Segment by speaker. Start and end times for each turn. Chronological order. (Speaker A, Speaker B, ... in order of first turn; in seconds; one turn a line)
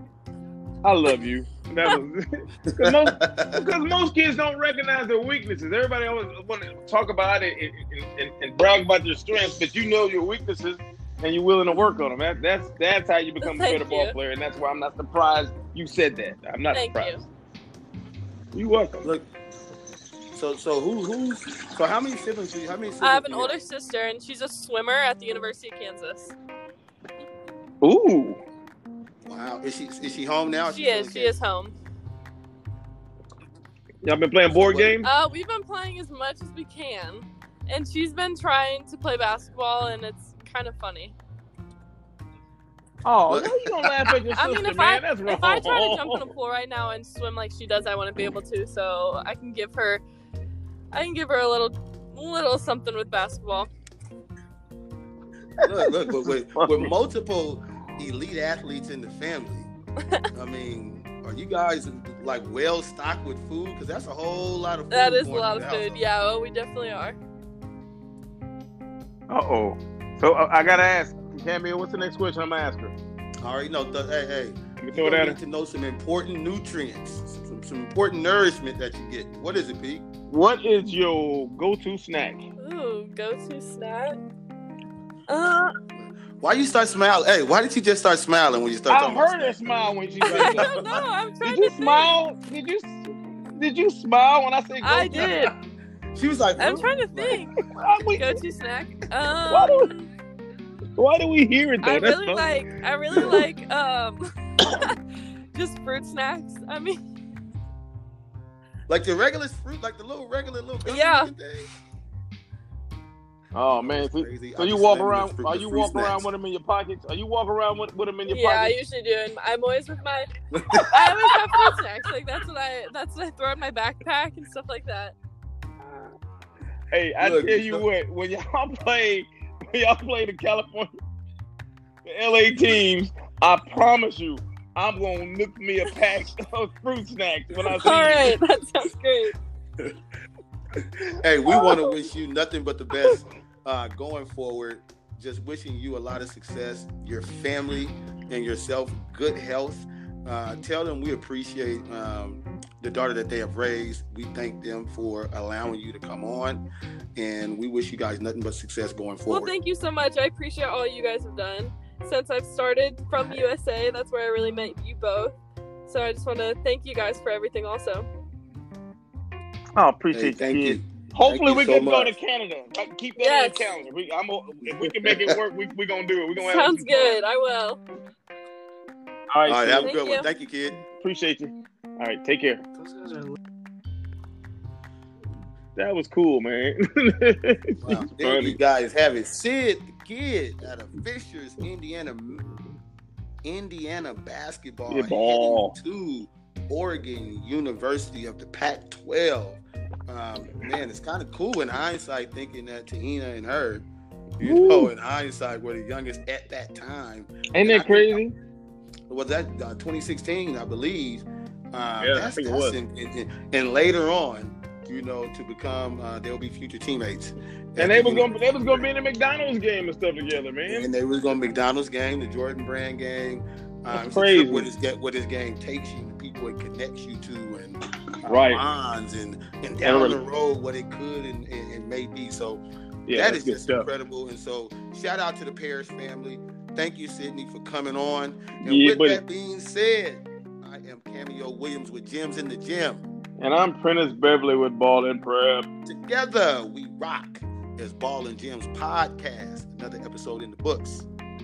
Speaker A: 0.8-17.2
Speaker B: 2.7-3.6
Speaker C: 13.4-14.1
Speaker C: 16.7-17.2
Speaker A: 18.5-19.1
Speaker B: 20.3-23.5
Speaker C: 23.0-26.3
Speaker A: 27.8-28.4
Speaker B: 29.2-31.4
Speaker C: 30.7-31.7
Speaker A: 34.0-35.1
Speaker B: 34.5-35.0
Speaker C: 35.0-41.1
Speaker A: 43.0-46.3
Speaker B: 43.3-44.1
Speaker C: 44.3-50.0
Speaker C: 50.9-53.7
Speaker B: 55.6-59.7
Speaker A: 55.6-56.9
Speaker B: 60.3-66.0
Speaker C: 64.9-67.2
Speaker A: 69.3-72.9
Speaker B: 73.4-80.0
Speaker A: 74.8-75.4
Speaker A: 80.3-82.4
Speaker C: 82.6-84.2
Speaker C: 85.3-85.7
Speaker B: 86.4-89.7
Speaker A: 88.9-90.7
Speaker C: 90.2-92.1
Speaker B: 90.3-91.0
Speaker A: 91.4-95.3
Speaker C: 94.8-95.5
Speaker B: 95.1-95.5
Speaker B: 96.1-97.5
Speaker C: 96.6-97.5
Speaker A: 97.7-98.3
Speaker C: 98.2-100.1
Speaker A: 99.5-99.9
Speaker A: 101.0-103.4
Speaker C: 101.8-105.0
Speaker C: 105.5-107.0
Speaker B: 108.9-111.7
Speaker C: 110.8-111.3
Speaker A: 113.5-118.8
Speaker B: 113.7-116.2
Speaker C: 118.3-120.3
Speaker B: 120.5-121.1
Speaker C: 120.9-125.1
Speaker A: 126.9-130.9
Speaker B: 127.2-127.8
Speaker A: 132.0-138.4
Speaker C: 137.6-139.3
Speaker B: 141.2-156.6
Speaker A: 141.5-141.8
Speaker B: 157.2-159.5
Speaker C: 159.3-165.3
Speaker C: 165.8-168.1
Speaker A: 169.8-177.2
Speaker B: 170.1-172.1
Speaker C: 173.2-173.7
Speaker B: 174.6-175.4
Speaker C: 176.4-177.8
Speaker A: 179.3-180.0
Speaker B: 179.4-180.8
Speaker C: 179.8-180.3
Speaker A: 181.0-182.6
Speaker A: 185.8-188.6
Speaker B: 187.8-192.5
Speaker B: 193.4-203.8
Speaker A: 194.9-195.7
Speaker B: 204.4-208.2
Speaker A: 204.4-204.9
Speaker A: 207.5-208.3
Speaker B: 209.1-218.9
Speaker A: 212.0-212.8
Speaker A: 217.8-220.9
Speaker B: 220.7-243.0
Speaker A: 223.9-224.7
Speaker A: 228.2-228.6
Speaker A: 229.8-230.2
Speaker A: 233.1-233.9
Speaker A: 238.6-239.2
Speaker A: 243.4-245.7
Speaker B: 245.8-251.1